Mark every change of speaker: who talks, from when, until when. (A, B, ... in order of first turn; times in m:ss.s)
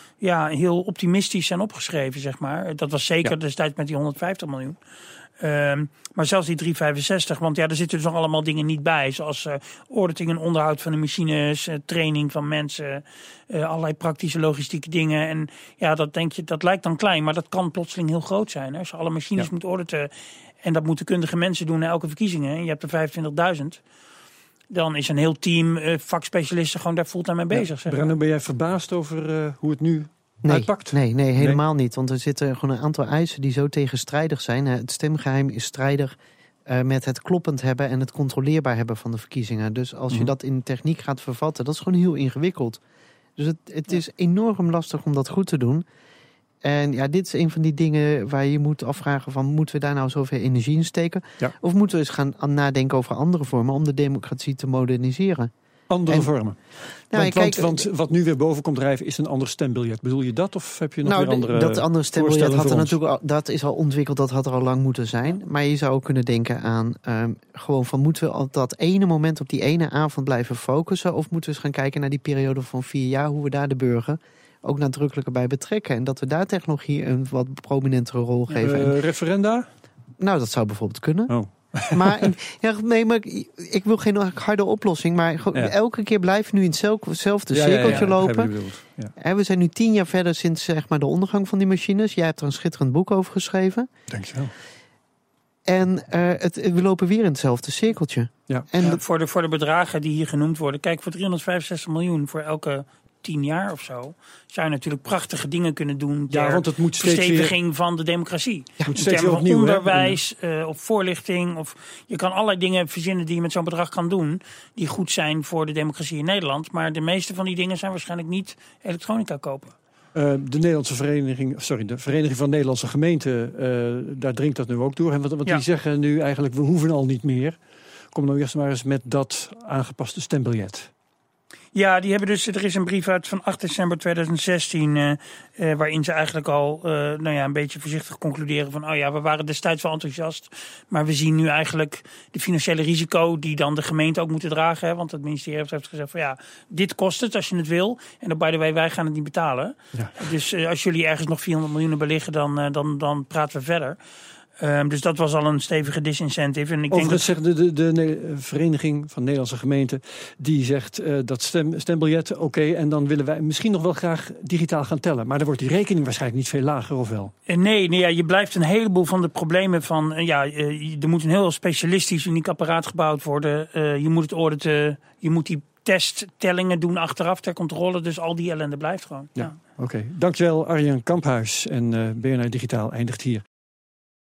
0:00.2-0:04.8 A
0:05.4-0:23.8 A
0:24.7-0:28.1 A
0:27.5-0:31.6 B
0:30.4-0:36.1 C
0:36.7-0:42.8 C
0:43.4-0:45.8 C
0:46.6-0:55.5 C
0:55.9-0:56.6 B
0:57.1-0:57.8 C
0:57.1-1:03.0 B
1:01.0-1:18.9 C
1:18.6-1:19.7 B
1:20.2-1:21.3 C
1:21.3-1:22.2 B
1:21.9-1:28.5 C
1:27.5-1:29.1 B
1:29.2-1:33.9 C
1:34.1-1:34.5 B
1:35.7-1:39.0 C
1:38.8-1:59.7 A
1:46.3-1:47.6 B
1:48.8-1:50.2 B
2:00.1-2:07.6 B
2:08.1-2:10.9 B
2:11.7-2:34.0 A
2:34.6-2:37.2 A
2:36.9-2:47.3 B
2:47.5-2:59.5 A
2:59.4-3:03.4 B